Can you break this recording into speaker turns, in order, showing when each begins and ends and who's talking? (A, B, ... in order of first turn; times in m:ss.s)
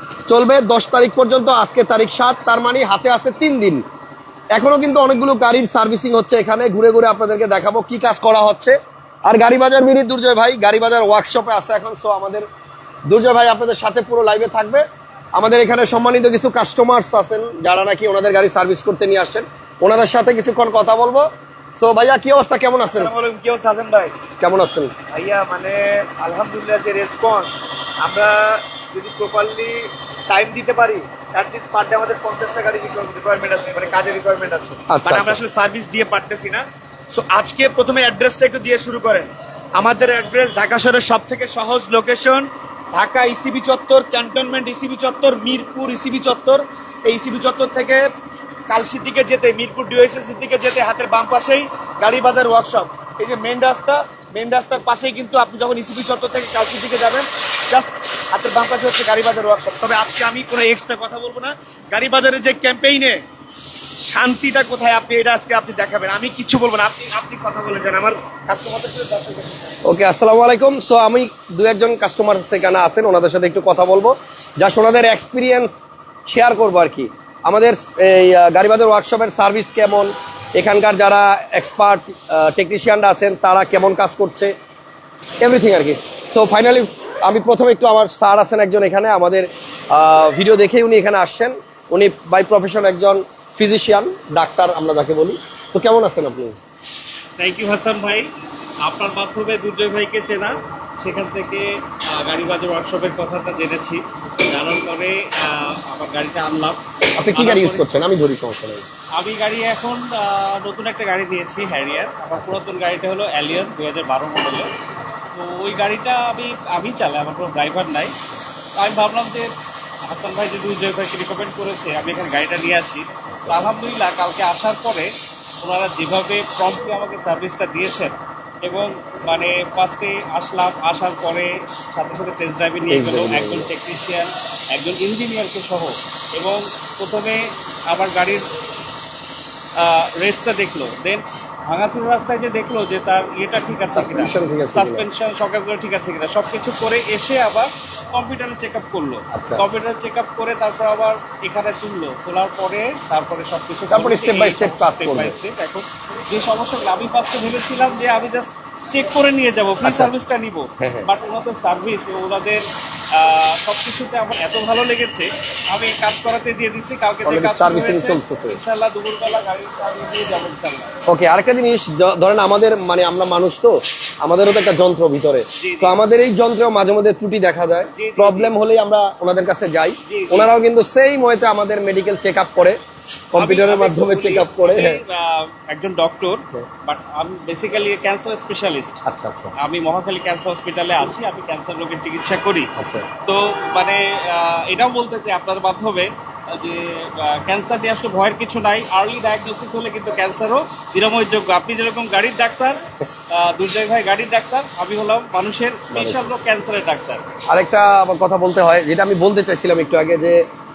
0:00.3-0:03.8 A
0:04.5-0:12.4 A
0:13.1-0:14.8 A
0:15.3-0:21.2 A
0:21.8-0:23.1 A
0:22.9-0:24.1 B
0:24.4-0:24.9 A
0:25.1-0:48.0 B
0:34.9-0:35.4 A
0:48.7-1:03.2 B
1:04.0-1:09.8 B
1:09.8-1:24.5 A
1:25.4-1:36.6 A
1:37.4-1:38.3 C
1:38.8-1:46.8 C
1:47.2-1:48.8 A
1:47.3-1:47.9 C
1:49.1-1:54.7 C
1:55.3-1:58.1 C
1:58.7-1:59.5 C
2:00.0-2:18.4 C
2:12.9-2:13.7 A
2:19.8-2:50.9 C
2:23.9-2:25.0 A
2:29.3-2:29.6 A
2:33.9-2:35.4 A
2:39.8-2:40.1 A
2:40.8-2:41.1 A
2:47.2-2:48.6 A
2:51.1-3:02.8 A
2:55.6-2:56.0 C
2:58.0-2:58.5 C
3:00.0-3:00.5 C
3:03.3-3:05.0 A
3:03.3-3:09.0 C
3:09.1-3:09.5 A
3:09.6-3:12.7 C
3:12.8-3:13.1 A
3:13.2-3:22.8 C
3:23.3-3:27.2 C
3:25.9-3:26.2 A
3:27.5-3:30.4 A